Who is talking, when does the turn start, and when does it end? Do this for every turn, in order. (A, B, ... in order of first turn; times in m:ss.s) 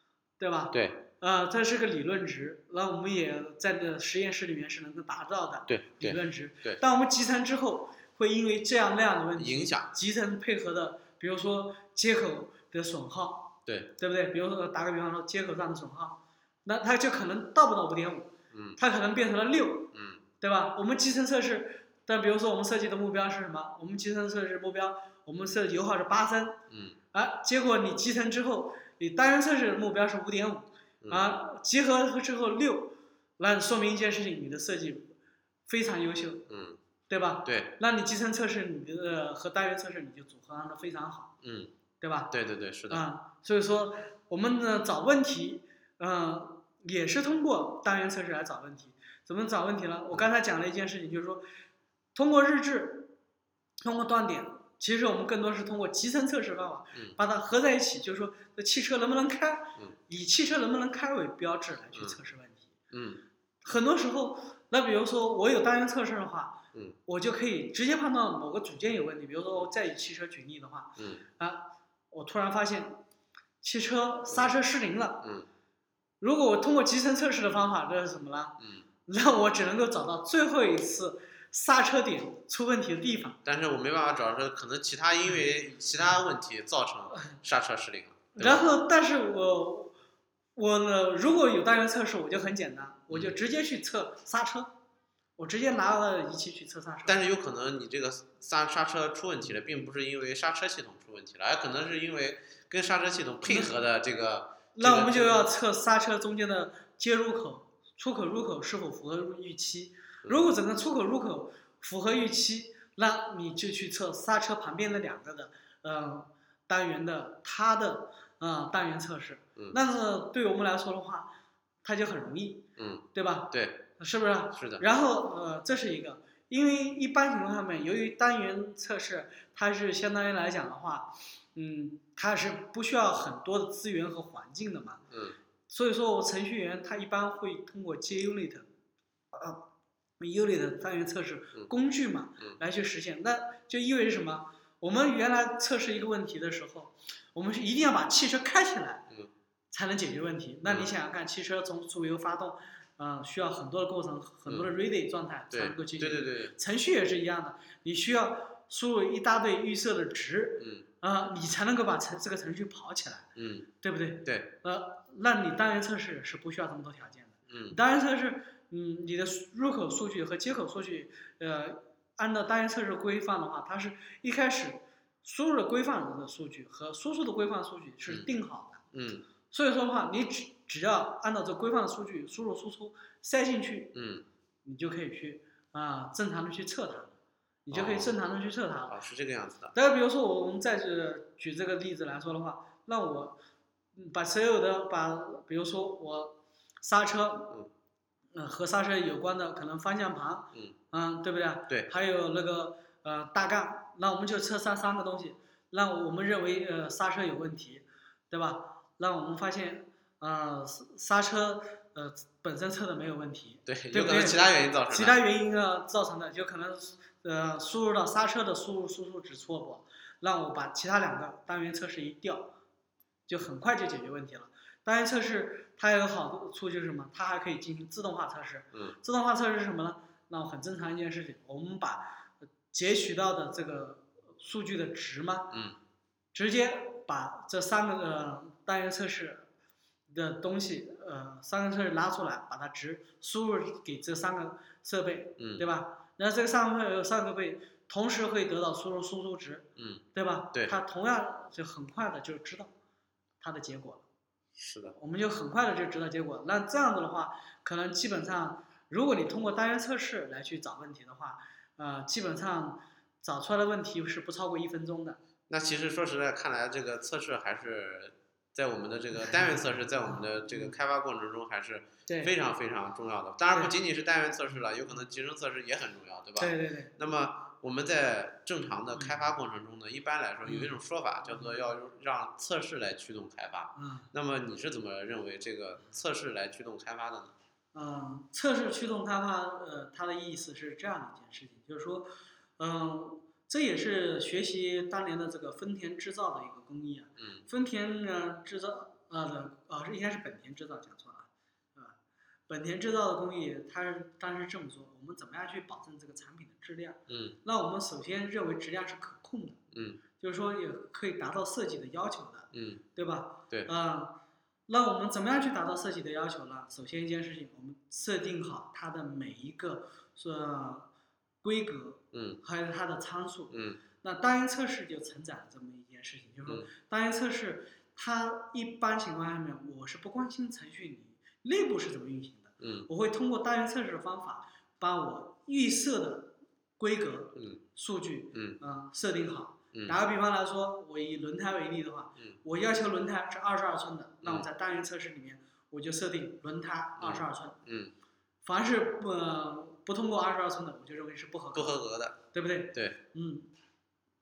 0:00.4-0:26.6 A
0:00.7-0:01.0 B
0:05.7-0:06.8 B
0:09.4-0:09.9 B
0:13.6-0:13.9 B
0:18.5-0:18.8 B
0:19.9-0:20.2 B
0:26.7-0:27.0 B
0:27.1-0:35.2 A
0:31.0-0:31.3 B
0:35.7-0:36.5 A
0:36.5-0:36.8 B
0:37.1-0:41.3 A
0:37.4-0:37.7 B
0:41.4-0:41.7 B
0:42.0-0:42.3 A
0:42.3-0:43.0 B
0:42.9-0:51.4 A
0:52.1-0:53.1 A
0:53.8-1:02.7 A
1:02.9-1:03.2 B
1:03.6-1:13.0 A
1:11.0-1:11.2 B
1:13.6-1:15.2 A
1:15.2-1:15.5 B
1:16.2-1:23.4 A
1:18.6-1:18.8 B
1:23.4-1:28.6 B
1:28.3-1:29.9 A
1:30.6-1:34.7 A
1:33.1-1:33.4 B
1:35.4-1:37.2 A
1:37.0-1:45.4 B
1:43.4-1:43.8 A
1:44.8-2:01.3 A
2:01.8-2:15.0 A
2:02.8-2:03.8 B
2:04.5-2:04.8 B
2:15.1-2:15.4 B
2:15.7-2:18.7 A
2:19.3-2:19.6 A
2:20.2-2:29.0 A
2:29.7-2:43.3 A
2:35.5-2:36.5 B
2:43.4-2:43.7 B
2:43.8-2:58.8 A
2:44.2-2:44.5 B
2:47.5-2:47.8 B
2:58.9-2:59.2 B
2:59.5-3:03.9 A
3:03.9-3:04.2 B
3:04.6-3:07.1 A
3:07.6-3:09.0 A
3:07.7-3:08.1 B
3:08.9-3:09.7 B
3:09.7-3:13.4 A
3:13.9-3:17.6 A
3:18.3-3:42.5 A
3:33.6-3:35.2 B
3:43.3-3:52.2 A
3:52.7-3:55.6 A
3:55.5-3:55.8 B
3:56.3-3:59.5 A
4:00.1-4:12.7 A
4:05.4-4:05.6 B
4:09.8-4:10.7 B
4:13.4-4:14.0 A
4:14.6-4:15.0 B
4:15.0-4:25.2 A
4:25.5-4:47.3 B
4:29.2-4:30.7 A
4:32.1-4:32.3 A
4:36.4-4:37.0 A
4:40.4-4:40.7 A
4:41.3-4:41.5 A
4:43.7-4:44.1 A
4:47.7-5:02.0 A
5:02.5-5:09.6 A
5:07.1-5:07.4 B
5:09.7-5:10.0 B
5:10.2-5:20.9 A
5:12.5-5:12.8 B
5:21.4-5:47.6 A
5:22.1-5:22.4 B
5:23.5-5:23.8 B
5:32.6-5:32.9 B
5:37.3-5:37.6 B
5:38.3-5:38.6 B
5:47.0-5:47.9 B
5:48.4-5:51.8 A
5:51.5-5:52.2 B
5:52.3-5:53.5 A